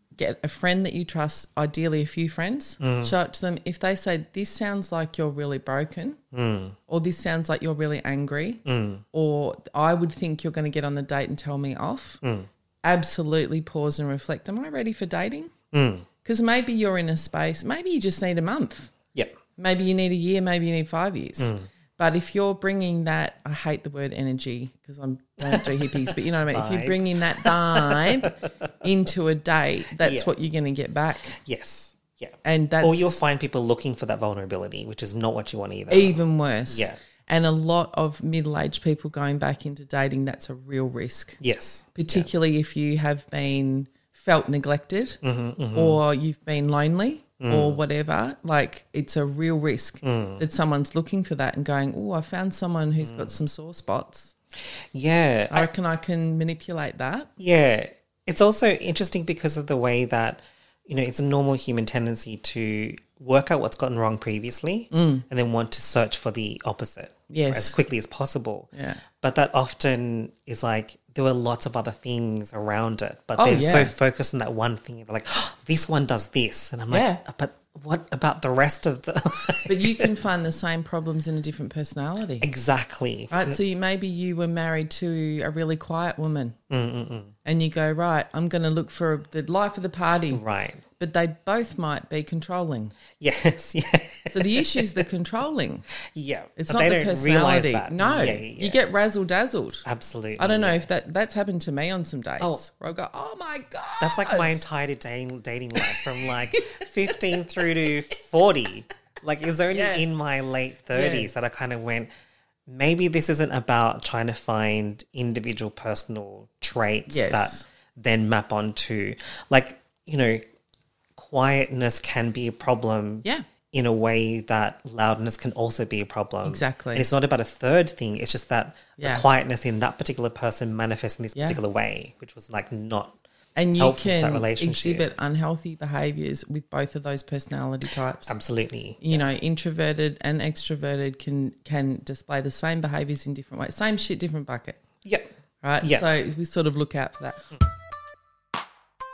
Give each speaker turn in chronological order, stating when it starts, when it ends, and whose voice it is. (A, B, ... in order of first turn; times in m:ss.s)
0:00.2-0:06.2 A
0:02.8-0:03.1 B
0:06.3-0:06.8 B
0:06.9-0:08.6 A
0:08.6-0:09.0 B
0:09.1-0:12.2 A
0:12.2-0:12.5 B
0:12.8-0:15.5 A
0:15.7-0:16.1 B
0:16.2-0:18.9 A
0:19.6-0:31.4 A
0:21.4-0:21.7 B
0:25.4-0:28.4 B
0:30.0-0:30.3 B
0:31.4-0:37.0 B
0:32.4-0:33.2 A
0:35.9-0:41.4 A
0:41.4-0:42.3 B
0:41.9-0:45.2 A
0:45.2-0:46.0 B
0:45.7-0:54.3 A
0:47.4-0:47.8 B
0:50.0-0:50.4 B
0:53.0-0:53.4 B
0:54.9-0:55.7 B
0:55.5-0:57.3 A
0:57.4-1:20.1 B
1:04.9-1:05.2 A
1:07.3-1:07.8 A
1:08.7-1:09.0 A
1:13.4-1:13.9 A
1:16.9-1:17.2 A
1:19.7-1:22.4 A
1:22.4-1:23.6 B
1:23.3-1:26.5 A
1:26.7-1:27.3 B
1:27.4-1:30.4 A
1:30.3-1:30.8 B
1:31.0-1:32.9 A
1:33.2-1:35.0 B
1:34.3-1:35.8 A
1:36.1-1:38.8 B
1:36.6-1:39.8 A
1:39.8-1:40.9 B
1:40.4-1:44.6 A
1:42.4-1:42.7 B
1:44.0-1:52.1 B
1:49.7-1:50.0 A
1:50.9-1:51.3 A
1:52.7-2:00.4 B
1:57.1-1:57.6 A
2:01.2-2:13.2 B
2:06.4-2:07.1 A
2:09.0-2:09.2 A
2:11.3-2:11.6 A
2:13.6-2:18.3 A
2:13.8-2:15.1 B
2:18.2-2:19.3 B
2:19.0-2:24.8 A
2:25.0-2:26.1 B
2:25.6-2:27.5 A